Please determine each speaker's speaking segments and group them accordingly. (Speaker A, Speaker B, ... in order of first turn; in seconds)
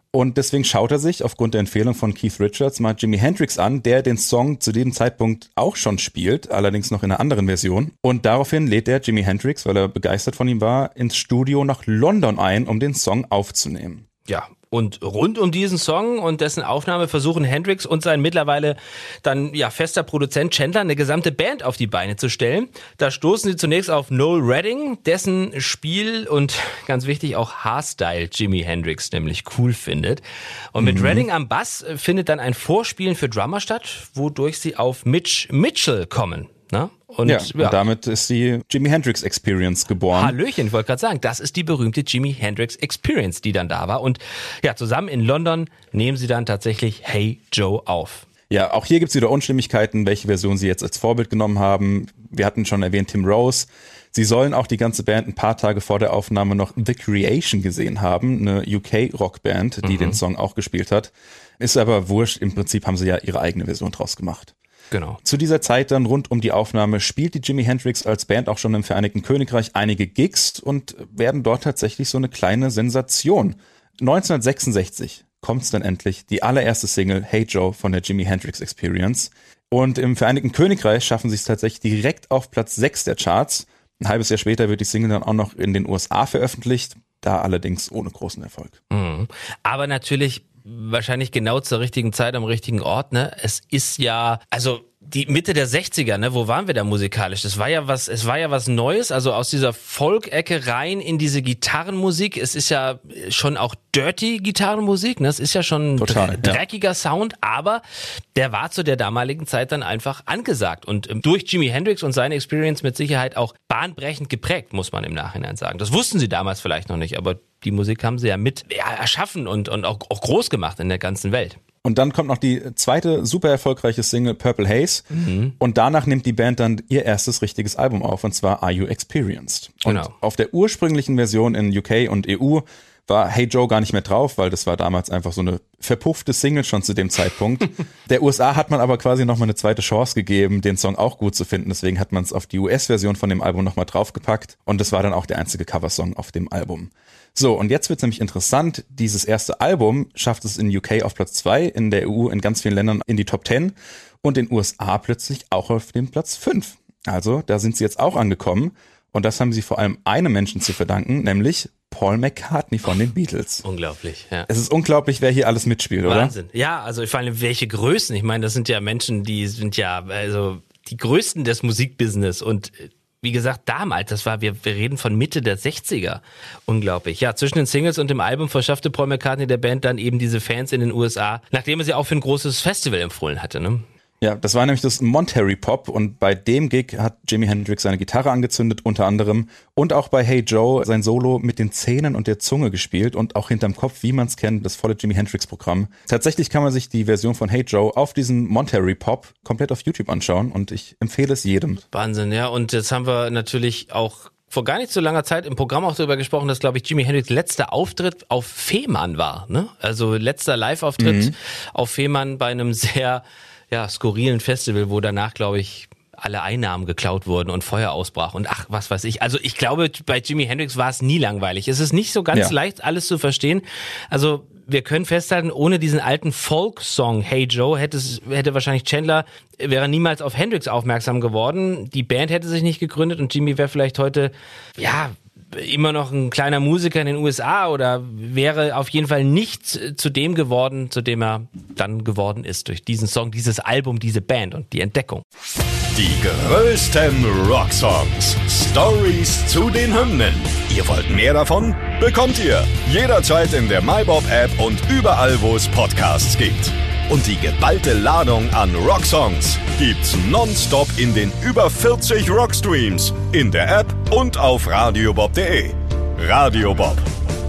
Speaker A: 0.1-14.1, 30.8-31.3, 37.2-40.4, 48.5-64.5, 65.2-88.8, 106.0-106.6, 121.8-125.0, 125.6-163.6, 164.5-166.3, 184.2-201.8, 211.0-211.4
Speaker B: 14.3-37.8, 40.1-48.3, 59.8-60.2, 64.9-65.2, 88.9-107.8, 108.3-121.6, 125.1-125.5, 129.8-130.1, 163.6-164.5, 166.1-183.8, 201.9-245.2
Speaker C: 245.9-267.1